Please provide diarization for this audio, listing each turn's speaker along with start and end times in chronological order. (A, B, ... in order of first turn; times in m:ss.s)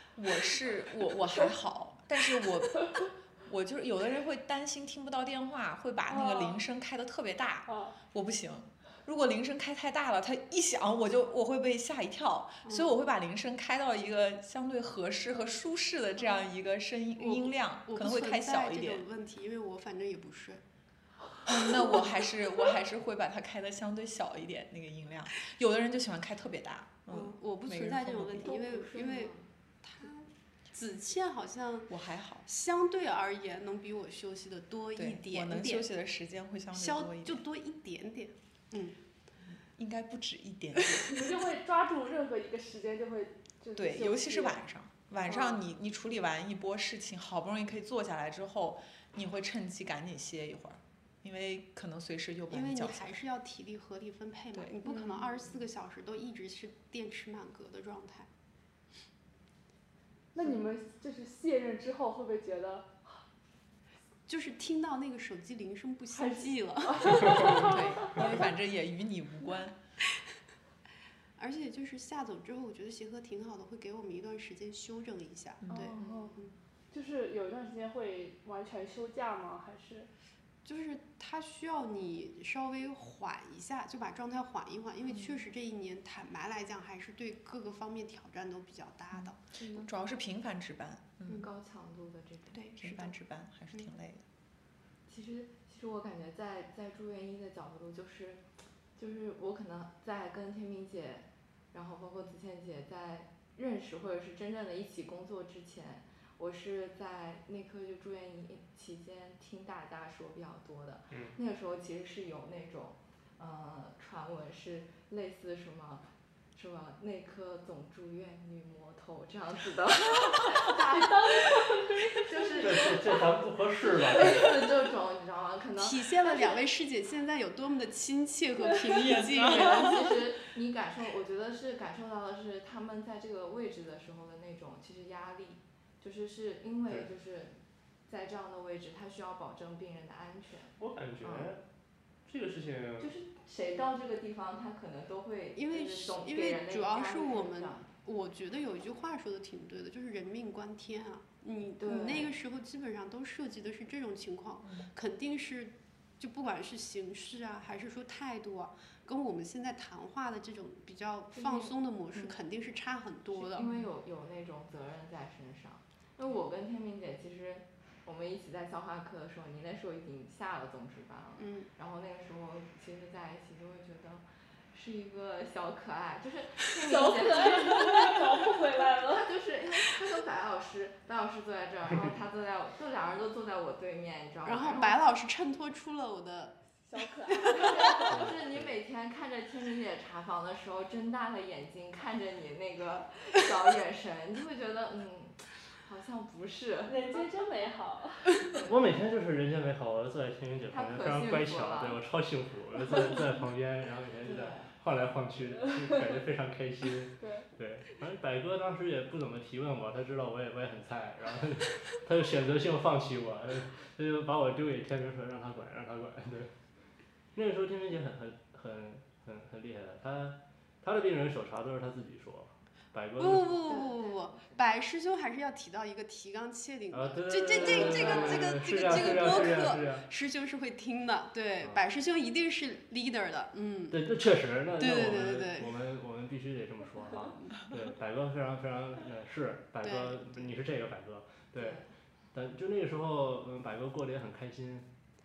0:00.2-0:19.0 A
0:06.1-0:06.6 B
0:07.7-0:08.0 B
0:12.6-0:12.9 C
0:17.2-0:20.6 C
0:21.4-0:28.6 A
0:27.1-0:31.9 C
0:28.4-0:29.5 D
0:31.9-0:32.5 A
0:32.4-0:35.9 C
0:35.0-0:37.4 A
0:36.7-0:39.0 C
0:39.7-0:41.3 A
0:41.1-0:44.6 B
0:43.8-0:53.2 A
0:45.3-0:45.6 B
0:52.5-0:58.3 C
0:54.5-0:54.8 A
1:00.3-1:03.2 B
1:04.3-1:08.2 C
1:06.1-1:08.2 B
1:07.4-1:09.8 A
1:11.4-1:16.5 C
1:15.6-1:15.9 A
1:15.7-1:20.1 B
1:16.0-1:16.4 D
1:20.6-1:29.4 C
1:29.1-1:31.5 A
1:29.6-1:29.9 D
1:31.3-1:32.7 D
1:32.5-1:33.1 C
1:32.8-1:34.3 A
1:35.1-1:38.4 D
1:39.0-2:06.6 D
1:51.1-1:51.4 E
2:00.4-2:02.9 B
2:02.6-2:04.5 E
2:05.8-2:10.2 C
2:08.9-2:10.1 A
2:09.1-2:21.6 D
2:20.8-2:21.6 E
2:22.3-2:23.1 E
2:23.0-2:27.9 D
2:25.6-2:43.7 C
2:31.8-2:32.4 D
2:41.3-2:42.4 D
2:43.4-3:05.0 D
2:51.4-2:51.7 C
2:56.8-2:59.3 B
3:04.4-3:08.1 C
3:06.9-3:08.1 B
3:07.5-3:17.3 D
3:08.0-3:08.7 E
3:16.9-3:18.6 B
3:18.4-3:18.8 D
3:18.7-3:36.5 E
3:20.7-3:22.0 D
3:24.2-3:24.7 D
3:27.2-3:27.5 B
3:37.4-3:43.7 E
3:43.2-3:54.0 C
3:43.7-3:44.6 D
3:46.9-3:50.1 E
3:47.5-3:48.4 D
3:51.6-3:51.8 E
3:53.9-4:01.8 E
3:54.8-3:55.8 C
3:59.8-4:00.5 C
4:01.6-4:01.9 D
4:02.3-4:04.9 E